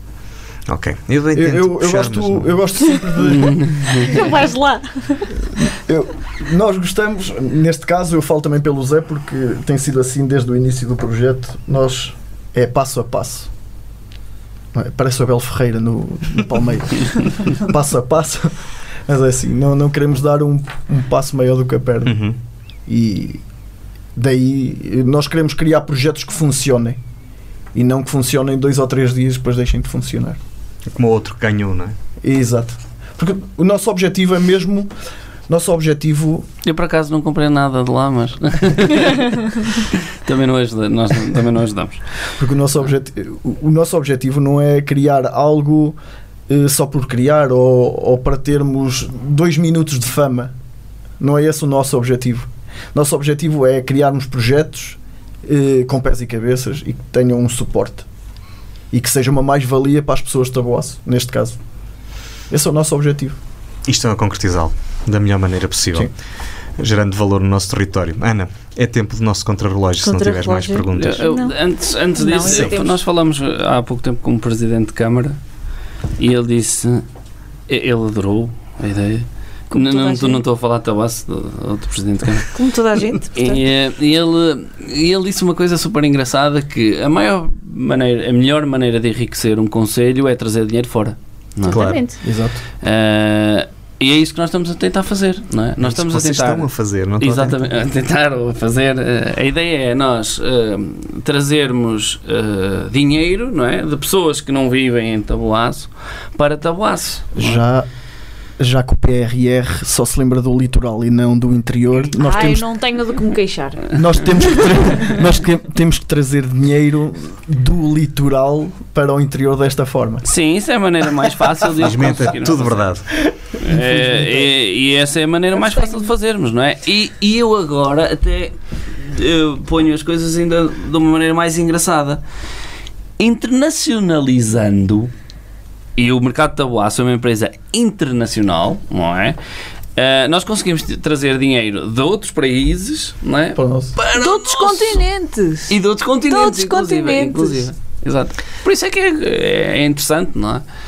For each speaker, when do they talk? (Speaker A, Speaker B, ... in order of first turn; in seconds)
Speaker A: 0.7-2.5, 22.0-22.4, 30.9-31.9, 63.9-66.1, 66.8-71.3, 72.5-72.7, 91.7-92.0, 95.8-97.6, 121.8-123.1
Speaker B: 1.3-4.3, 5.4-13.5, 14.7-18.5, 19.1-22.2, 22.9-23.4, 24.1-27.0, 27.7-30.4, 32.2-34.9, 35.5-36.5, 42.4-46.0, 46.5-50.5, 51.2-58.0, 58.9-61.6, 62.5-63.4, 92.2-92.6, 107.3-107.9, 108.6-112.7, 113.9-120.2, 123.7-124.5, 143.6-143.9
Speaker C: 3.2-4.2, 36.6-42.0, 70.9-75.4, 76.2-77.0, 77.7-82.5, 83.3-91.9, 92.8-96.7, 97.2-107.6, 120.2-122.9, 123.6-132.2, 133.2-135.1, 135.9-139.4, 139.9-145.0, 145.7-150.6
Speaker D: 4.0-5.3, 70.0-71.5, 72.2-73.0, 79.7-80.4, 82.5-83.6, 91.6-92.2, 112.2-114.0, 144.1-147.6